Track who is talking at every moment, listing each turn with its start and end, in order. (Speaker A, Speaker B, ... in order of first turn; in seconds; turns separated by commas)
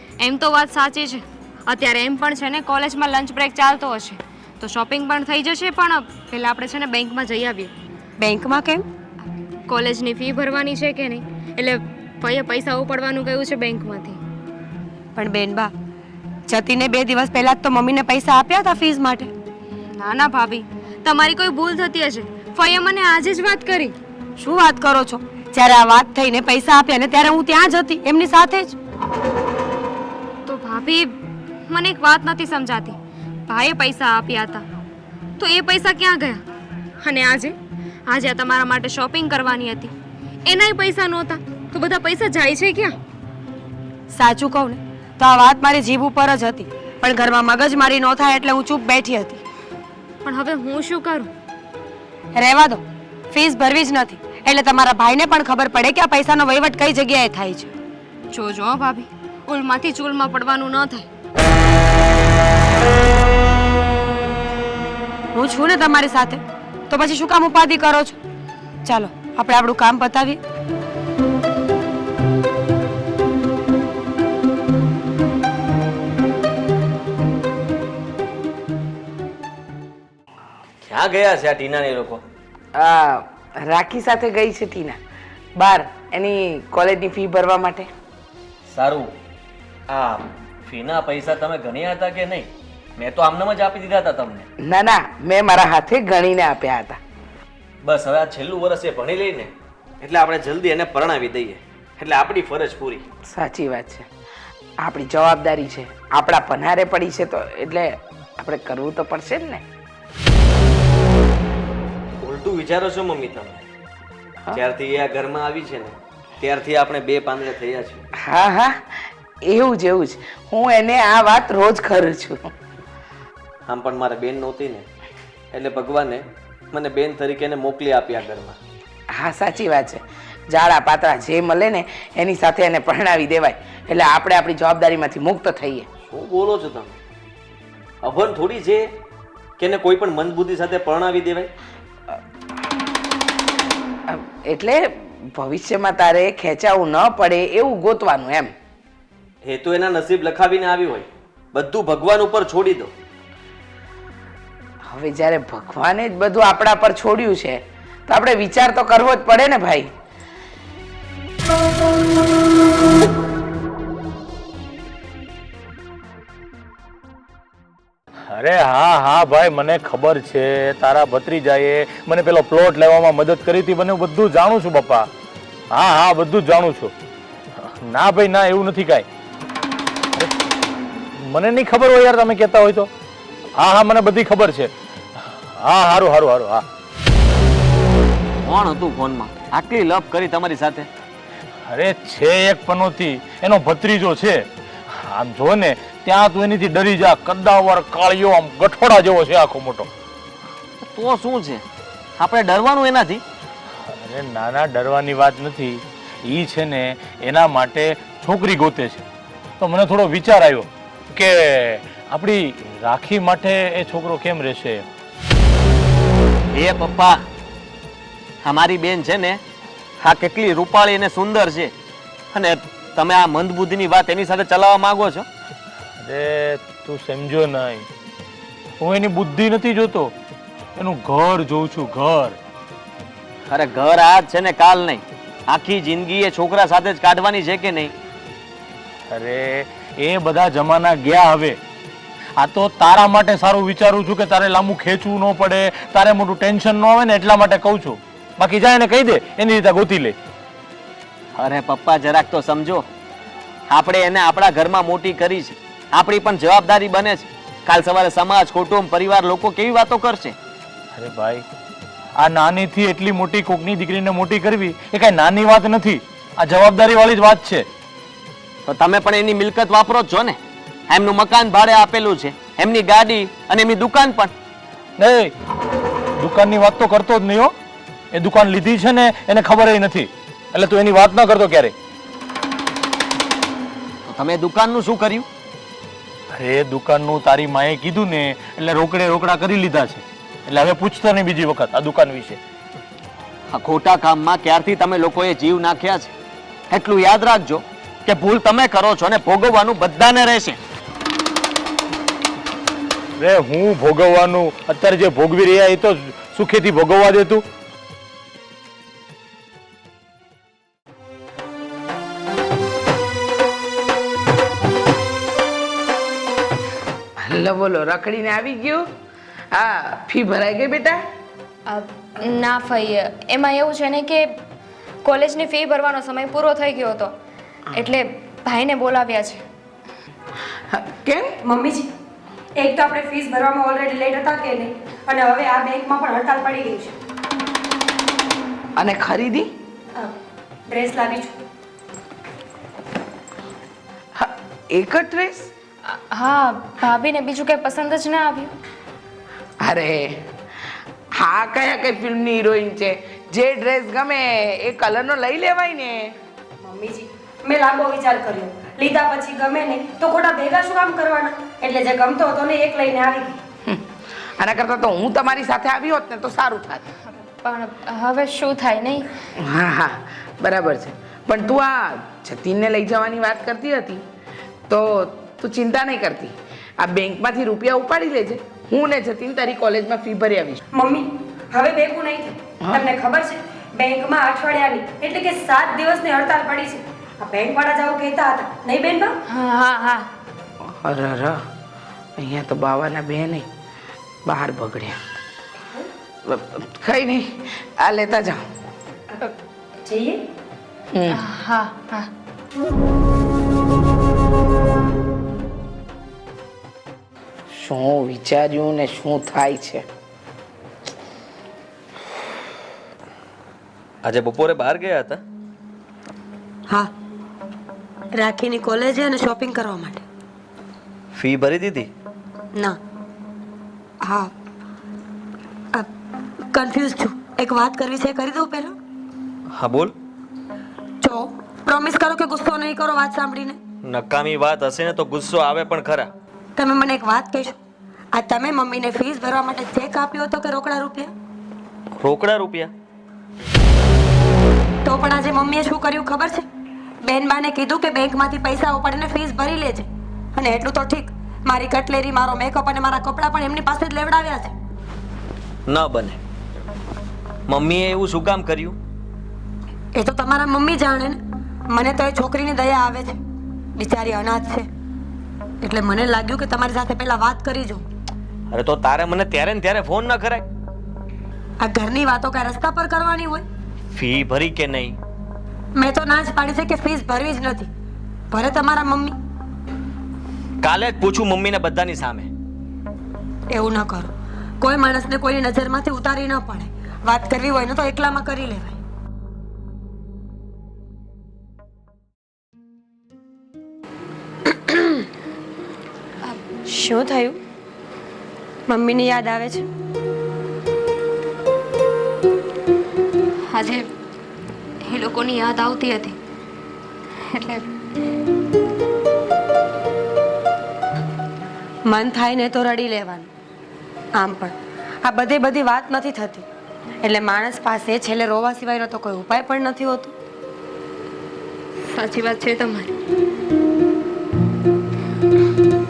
Speaker A: 0.2-7.7, Speaker B: 8.2-8.9, Speaker A: 9.7-14.2, Speaker B: 15.2-15.7, Speaker B: 16.5-19.3, Speaker A: 19.9-23.9, Speaker B: 24.4-28.8, Speaker A: 30.5-31.2, Speaker A: 31.7-34.6, Speaker A: 35.4-36.4, Speaker A: 37.0-37.6, Speaker A: 38.1-39.9, Speaker A: 40.5-43.0, Speaker B: 44.1-49.4, Speaker A: 50.2-51.3, Speaker B: 52.3-57.7, Speaker A: 58.3-61.1, Speaker B: 65.3-68.2, Speaker B: 68.8-70.4, Speaker C: 80.8-82.2, Speaker D: 82.8-85.0, Speaker D: 85.6-87.9, Speaker C: 88.7-89.1, Speaker C: 89.9-94.5, Speaker D: 94.6-97.0, Speaker C: 97.8-103.0, Speaker D: 103.3-104.1, Speaker D: 104.8-109.6, Speaker C: 112.2-113.6, Speaker C: 114.5-118.0, Speaker D: 118.2-122.5, Speaker C: 123.7-124.9, Speaker C: 125.5-128.6, Speaker D: 129.1-135.9, Speaker C: 136.1-136.9, Speaker C: 138.0-138.9, Speaker C: 139.6-141.5, Speaker D: 144.1-148.5, Speaker C: 149.4-152.9, Speaker D: 154.8-159.9, Speaker E: 168.3-175.1, Speaker E: 175.7-176.9, Speaker E: 177.6-179.1, Speaker E: 181.2-182.9, Speaker E: 183.6-186.7, Speaker C: 188.4-190.9, Speaker E: 191.7-199.9, Speaker C: 200.8-201.6, Speaker C: 202.2-203.2, Speaker E: 203.9-209.1, Speaker E: 209.6-214.9, Speaker C: 216.5-217.2, Speaker C: 218.4-219.4, Speaker C: 220.0-221.7, Speaker C: 222.3-225.3, Speaker E: 226.0-227.9, Speaker E: 228.8-230.1, Speaker E: 230.8-232.4, Speaker C: 233.5-237.9, Speaker E: 239.1-241.6, Speaker E: 242.4-250.2, Speaker C: 251.4-252.9, Speaker C: 253.7-260.4, Speaker E: 260.9-261.4, Speaker E: 262.2-267.7, Speaker C: 268.7-270.4, Speaker C: 270.9-274.3, Speaker E: 275.0-275.3, Speaker E: 276.2-277.5, Speaker E: 278.1-281.7, Speaker C: 284.1-285.3, Speaker E: 286.3-292.4, Speaker C: 293.5-296.1, Speaker C: 296.7-300.6, Speaker E: 303.2-307.4, Speaker D: 317.2-318.9, Speaker D: 319.5-321.0, Speaker A: 321.7-324.4, Speaker A: 325.0-327.1, Speaker A: 327.7-329.4, Speaker D: 330.7-331.4, Speaker B: 331.4-331.9, Speaker B: 332.6-337.0, Speaker D: 338.8-339.5, Speaker B: 340.7-341.4, Speaker D: 344.2-345.5, Speaker A: 345.9-348.5, Speaker D: 349.6-350.3, Speaker D: 351.1-356.2, Speaker B: 356.6-363.4, Speaker D: 363.6-366.9, Speaker A: 367.1-369.1, Speaker D: 369.4-374.0, Speaker D: 374.7-380.6, Speaker B: 380.7-389.2, Speaker D: 382.6-382.9, Speaker A: 389.3-390.1, Speaker D: 390.6-391.5, Speaker D: 392.2-393.5, Speaker D: 394.3-395.0, Speaker B: 395.6-395.9, Speaker D: 396.2-398.5, Speaker B: 399.1-400.2, Speaker D: 400.9-401.2, Speaker A: 401.1-402.1, Speaker D: 407.5-409.9, Speaker C: 414.0-415.2, Speaker B: 418.1-420.0, Speaker C: 421.1-421.9, Speaker B: 424.0-424.3, Speaker B: 426.5-428.8, Speaker C: 429.5-429.9, Speaker B: 431.0-433.6, Speaker C: 433.8-436.1, Speaker B: 436.6-437.6, Speaker B: 438.1-441.1, Speaker C: 441.9-442.7, Speaker B: 444.8-446.5, Speaker B: 447.0-454.6, Speaker C: 455.7-456.2, Speaker C: 457.5-458.8, Speaker B: 459.9-463.2, Speaker B: 463.8-464.7, Speaker B: 465.6-467.9, Speaker C: 468.5-470.5, Speaker B: 471.6-473.4, Speaker C: 473.9-475.0, Speaker B: 475.8-477.7, Speaker B: 478.3-479.2, Speaker C: 480.6-482.3, Speaker B: 483.5-488.8, Speaker B: 494.5-495.0, Speaker B: 496.7-497.4, Speaker B: 498.7-499.7, Speaker A: 503.5-503.9, Speaker A: 504.8-506.2, Speaker A: 507.2-507.7, Speaker B: 511.9-513.3, Speaker B: 514.1-516.5, Speaker B: 517.0-520.1, Speaker A: 521.8-523.0